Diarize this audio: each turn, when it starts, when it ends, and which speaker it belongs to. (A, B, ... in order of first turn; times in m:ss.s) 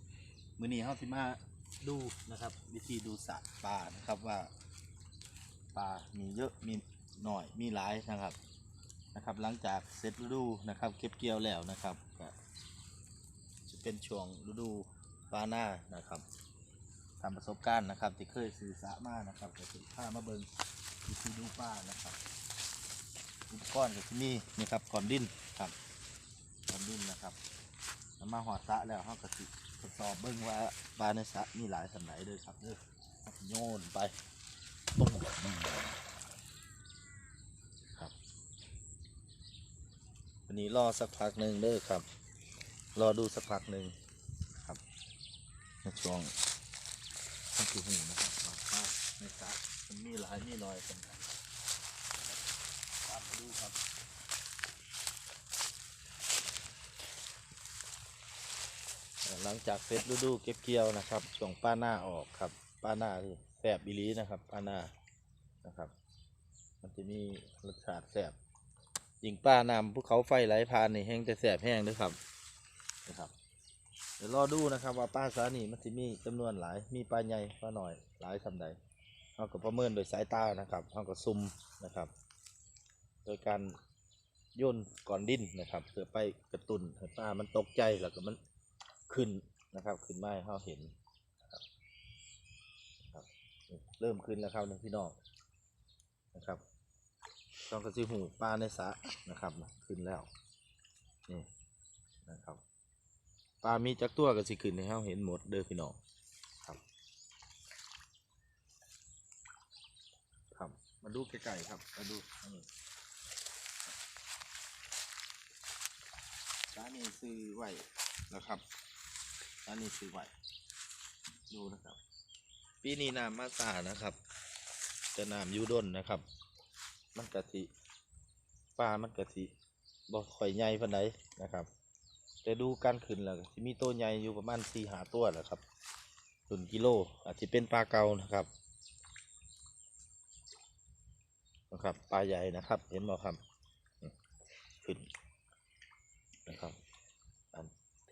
0:00.6-0:04.5 A
0:05.7-0:08.4 A
0:09.1-0:12.3 A
0:13.7-0:16.2 A
0:17.2-0:20.5 A
0:21.0-0:22.2 A
0:23.5-0:25.7 A
0:26.7-0:27.4 A
0:28.2-0:34.1 A
0:35.0-0:36.0 A
0:40.5-0:42.0 A
0:42.9-0:43.9 A
0:45.8-0:46.3 A
0:47.5-0:51.3 A
0:53.0-0:53.8 A
0:59.2-1:04.9 A
1:05.6-1:05.9 A
1:06.8-1:08.4 A
1:09.2-1:12.2 A
1:13.0-1:13.3 A
1:14.2-1:18.8 A
1:19.4-1:22.1 A
1:23.2-1:23.8 A
1:24.6-1:28.4 A
1:29.1-1:30.9 A
1:33.0-1:35.1 A
1:36.3-1:36.6 A
1:37.7-1:40.3 A
1:42.2-1:42.6 A
1:43.6-1:46.0 A
1:50.5-1:52.7 A
1:56.7-1:58.6 A
1:59.6-2:00.3 A
2:01.5-2:02.0 A
2:02.8-2:04.2 A
2:05.1-2:06.2 A
2:07.1-2:07.7 A
2:08.8-2:09.5 A
2:10.1-2:11.7 A
2:12.4-2:15.6 A
2:16.5-2:18.5 A
2:21.7-2:23.4 A
2:26.4-2:26.8 A